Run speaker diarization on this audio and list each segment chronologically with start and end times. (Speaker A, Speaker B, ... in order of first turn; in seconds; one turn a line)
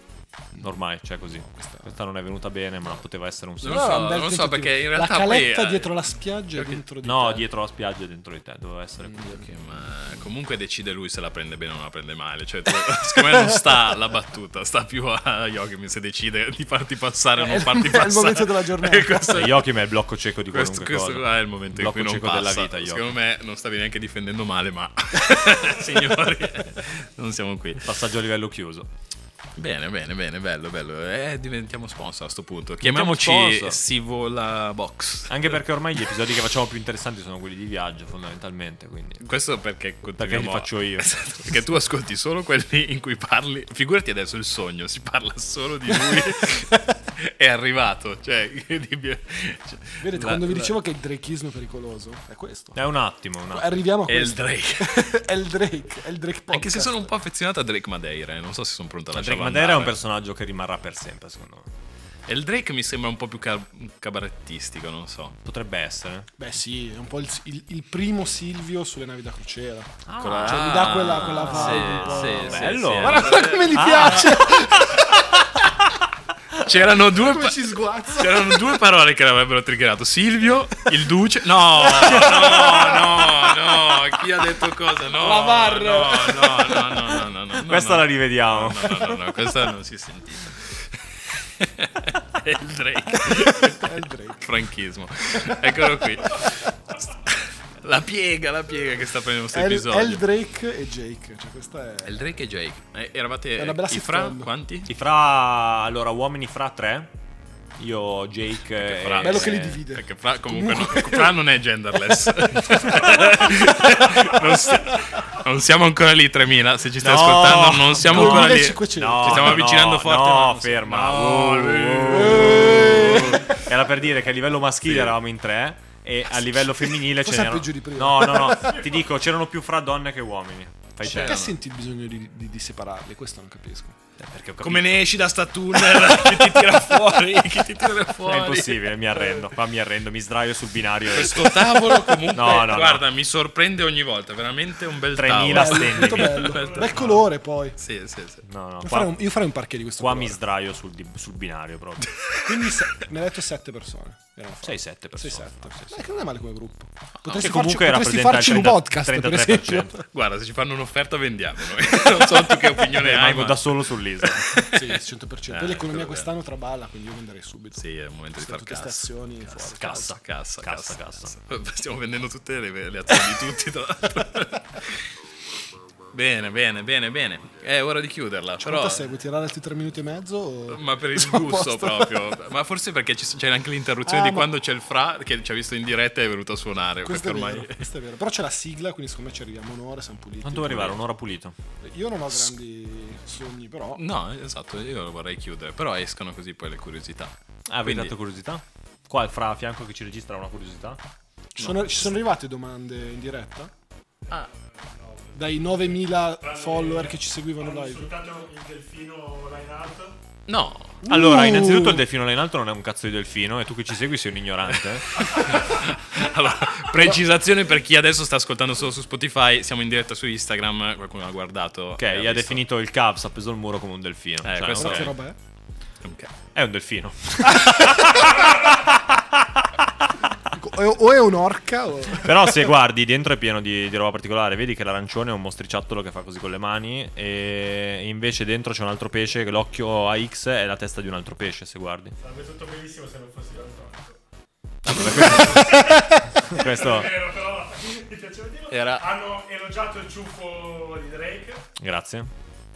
Speaker A: 0.6-4.2
Speaker B: 1.4-1.9
Speaker C: 3.6-5.9
Speaker B: 3.6-7.5
Speaker A: 7.0-9.4
Speaker C: 9.2-19.7
Speaker B: 13.1-13.8
Speaker B: 17.4-19.5
Speaker A: 19.3-23.1
Speaker C: 20.5-27.9
Speaker A: 27.8-28.9
Speaker C: 29.6-35.6
Speaker A: 32.8-33.8
Speaker A: 35.3-39.2
Speaker C: 39.2-50.7
Speaker A: 40.2-41.1
Speaker B: 45.9-46.7
Speaker B: 50.0-52.8
Speaker A: 52.7-53.7
Speaker B: 53.5-57.1
Speaker C: 54.1-55.1
Speaker C: 56.5-59.9
Speaker A: 59.1-61.7
Speaker C: 62.3-65.4
Speaker A: 65.4-66.3
Speaker B: 66.4-75.2
Speaker A: 70.0-75.7
Speaker C: 70.2-74.3
Speaker C: 76.6-100.2
Speaker B: 76.9-78.6
Speaker B: 81.8-83.5
Speaker A: 82.4-82.9
Speaker B: 85.1-87.3
Speaker A: 87.6-88.9
Speaker B: 93.2-94.6
Speaker B: 95.3-95.8
Speaker B: 99.5-102.3
Speaker C: 102.0-104.9
Speaker B: 103.6-104.5
Speaker A: 104.9-107.1
Speaker A: 107.8-109.8
Speaker C: 108.8-123.6
Speaker B: 109.2-111.4
Speaker B: 112.1-113.5
Speaker A: 117.0-131.4
Speaker B: 118.0-119.7
Speaker B: 122.1-123.6
Speaker C: 124.8-125.1
Speaker B: 127.1-129.0
Speaker B: 131.0-133.9
Speaker C: 131.0-131.5
Speaker A: 134.2-135.1
Speaker C: 134.6-139.2
Speaker A: 138.2-143.0
Speaker C: 141.1-147.2
Speaker A: 145.1-147.1
Speaker B: 145.4-147.8
Speaker C: 147.8-148.4
Speaker A: 148.4-149.2
Speaker B: 148.8-150.4
Speaker A: 150.0-152.1
Speaker C: 152.1-152.8
Speaker B: 152.4-160.0
Speaker A: 154.6-156.1
Speaker C: 157.2-157.5
Speaker A: 157.4-160.0
Speaker C: 160.1-165.0
Speaker A: 162.9-164.5
Speaker B: 164.7-167.8
Speaker C: 165.5-166.3
Speaker C: 167.8-175.1
Speaker B: 168.4-170.1
Speaker A: 169.8-171.3
Speaker C: 176.1-179.0
Speaker B: 178.6-182.3
Speaker C: 180.7-187.8
Speaker B: 184.1-184.5
Speaker B: 187.0-191.0
Speaker A: 190.4-191.5
Speaker B: 191.8-194.0
Speaker C: 193.9-198.1
Speaker A: 197.7-201.0
Speaker B: 201.6-203.7
Speaker A: 201.6-201.9
Speaker D: 204.3-210.2
Speaker B: 205.3-208.2
Speaker C: 210.5-211.0
Speaker B: 211.0-212.0
Speaker A: 211.1-215.7
Speaker C: 215.2-222.6
Speaker A: 222.0-225.1
Speaker C: 224.4-225.2
Speaker B: 224.7-225.4
Speaker C: 226.0-226.3
Speaker A: 226.5-229.7
Speaker B: 230.5-232.3
Speaker A: 232.2-242.1
Speaker D: 242.2-244.2
Speaker A: 244.8-247.1
Speaker D: 244.9-251.7
Speaker C: 248.7-249.1
Speaker A: 251.8-252.3